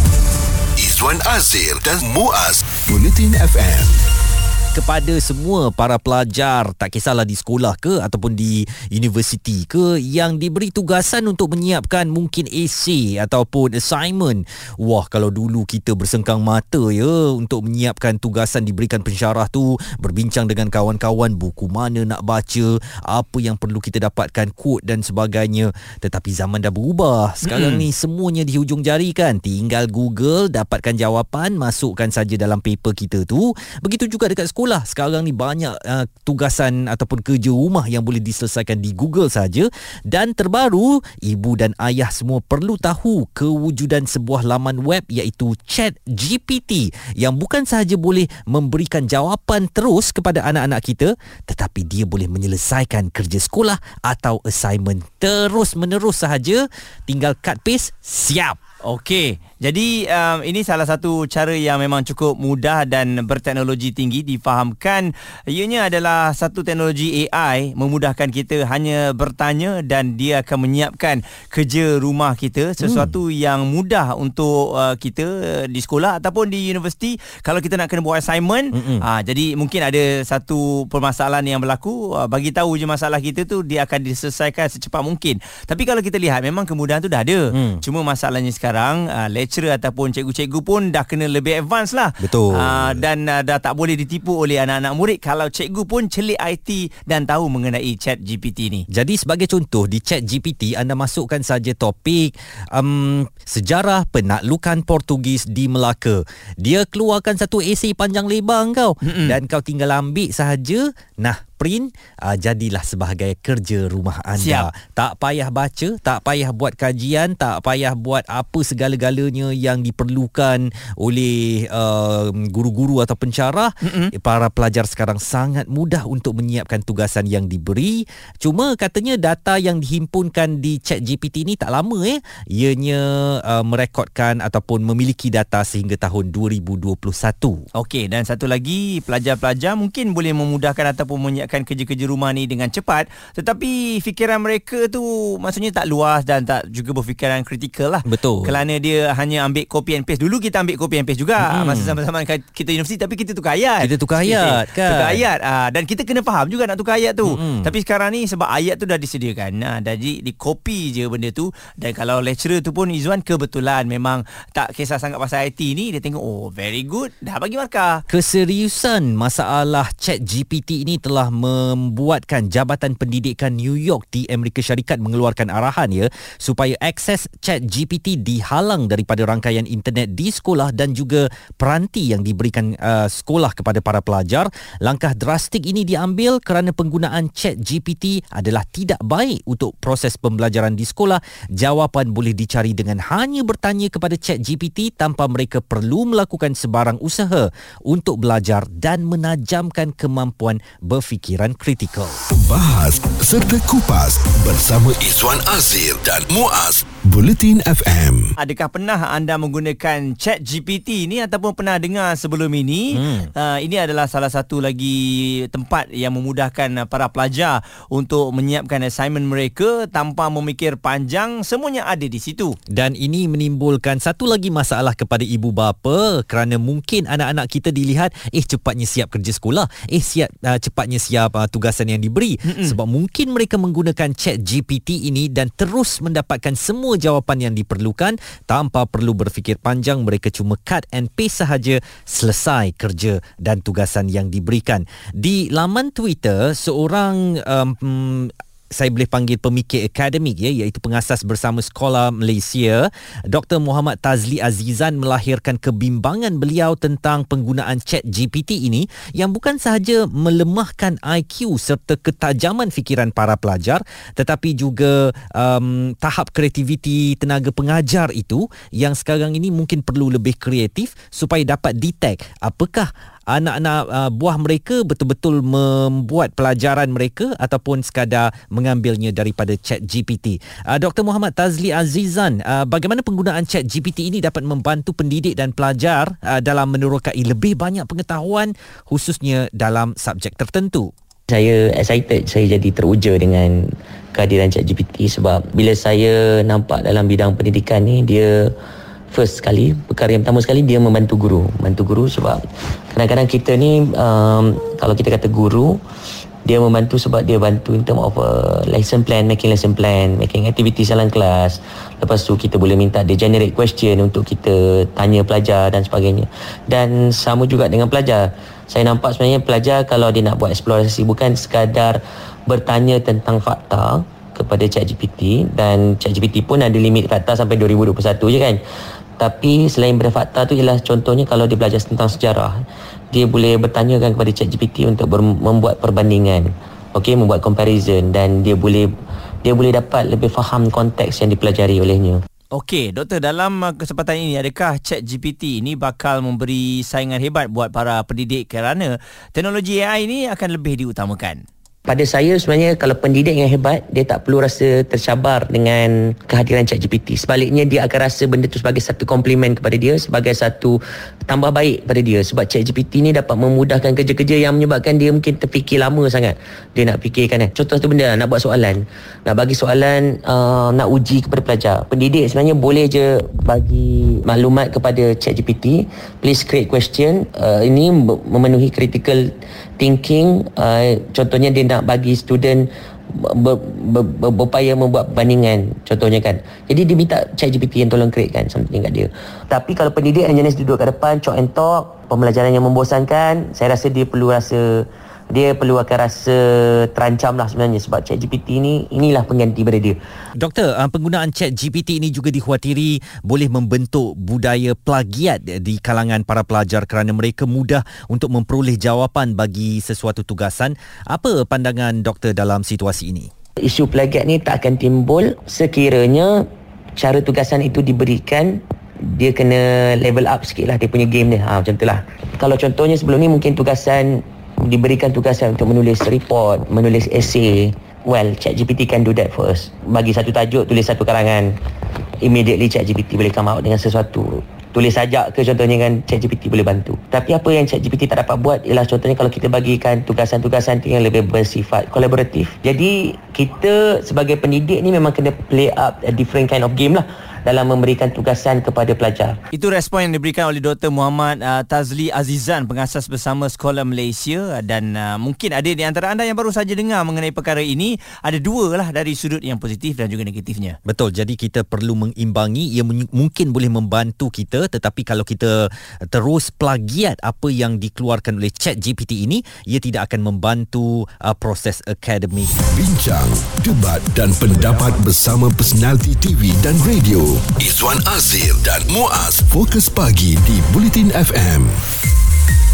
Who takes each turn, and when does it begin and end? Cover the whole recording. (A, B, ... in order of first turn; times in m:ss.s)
0:00.8-0:04.0 A
0:04.8-0:58.6 B
0:27.4-0:27.9 C
0:58.8-1:38.8 C
1:12.8-1:13.1 B
1:18.7-1:19.1 B
1:27.5-1:27.8 B
1:32.2-1:33.0 B
1:38.9-2:17.6 B
1:49.0-1:49.4 C
1:54.4-1:54.7 C
2:03.8-2:04.1 C
2:17.8-2:48.0 C
2:28.0-2:28.6 B
2:31.4-2:32.0 B
2:33.8-2:35.2 B
2:37.2-2:37.7 B
2:48.1-3:22.2 B
3:22.4-3:28.3 A
3:28.4-3:42.6 C
3:32.9-3:33.3 B
3:42.7-4:50.9 B
3:52.5-3:52.8 C
4:51.3-4:58.5 D
4:59.1-5:02.4 D
5:02.9-5:05.8 D
5:06.4-5:28.6 D
5:29.2-5:38.9 D
5:39.4-5:42.2 D
5:42.5-5:51.4 C
5:51.8-6:40.0 D
6:40.4-6:53.3 B
6:53.6-6:56.4 D
6:57.0-7:11.5 D
7:12.2-7:29.4 D
7:29.5-7:40.8 C
7:40.8-7:52.6 B
7:52.6-8:01.8 A